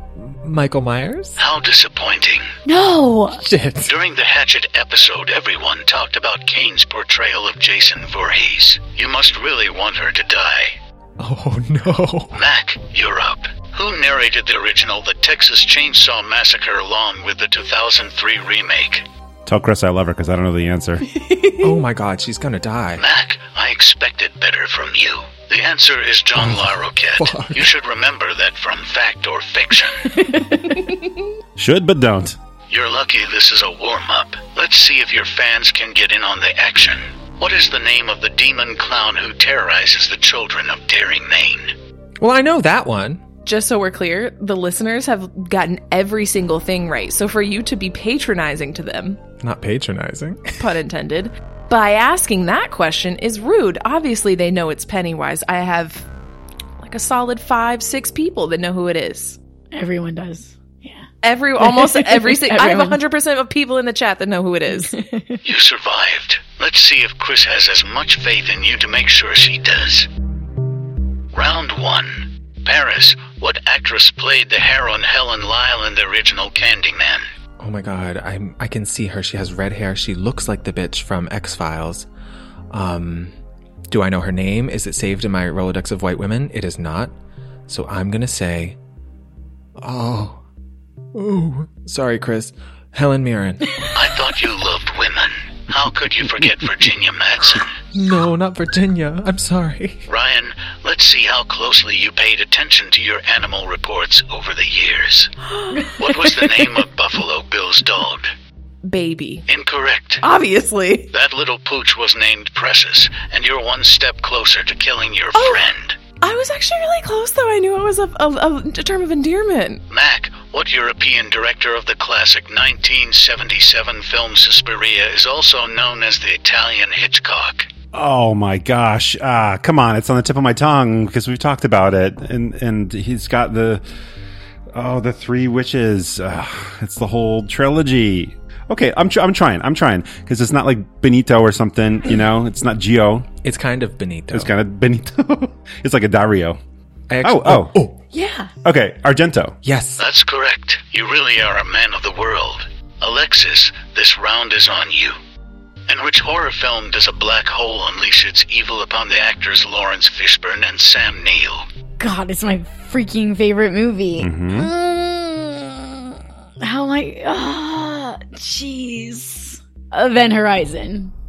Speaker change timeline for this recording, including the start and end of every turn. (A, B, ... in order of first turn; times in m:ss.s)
0:00.1-0:01.4 A
0:01.4-0:02.5 B
0:02.6-0:03.4 C
0:03.4-0:03.9 A
0:03.9-0:10.8 B
0:11.2-0:12.4 A
0:12.3-0:19.1 B
0:19.4-0:21.1 D
0:21.6-0:23.0 A
0:23.0-0:30.2 B
0:26.4-0:27.7 A
0:30.0-0:31.0 C
0:31.6-0:32.4 D
0:32.7-0:41.8 B
0:42.2-0:43.2 A
0:43.4-0:49.2 E
0:49.4-0:50.6 A
0:50.6-0:56.1 E
0:56.8-0:59.4 E
0:59.7-1:01.0 C
1:01.2-1:04.9 E
1:01.6-1:03.0 C
1:04.7-1:05.4 C
1:05.4-1:10.1 B
1:11.3-1:17.3 B
1:17.6-1:22.1 A
1:22.7-1:23.3 A
1:23.9-1:27.1 A
1:27.7-1:28.8 A
1:29.8-1:30.4 A
1:31.1-1:33.8 A
1:33.9-1:37.8 B
1:37.9-1:40.0 A
1:40.1-1:45.3 B
1:45.5-1:46.0 E
1:46.0-1:48.3 B
1:48.8-1:49.4 E
1:49.5-1:50.2 B
1:50.2-1:51.1 E
1:51.1-1:56.0 B
1:55.3-1:55.6 E
1:56.2-1:59.8 E
1:59.9-2:07.7 B
2:07.9-2:13.8 D
2:14.7-2:23.3 D
2:23.4-2:24.5 A
2:24.3-2:26.6 D
2:27.1-2:28.0 A
2:27.2-2:27.8 D
2:28.1-2:28.5 E
2:28.6-2:29.6 D
2:29.6-2:30.0 A
2:30.0-2:35.2 B
2:35.9-2:41.7 B
2:42.0-2:51.1 C
2:44.2-2:44.7 D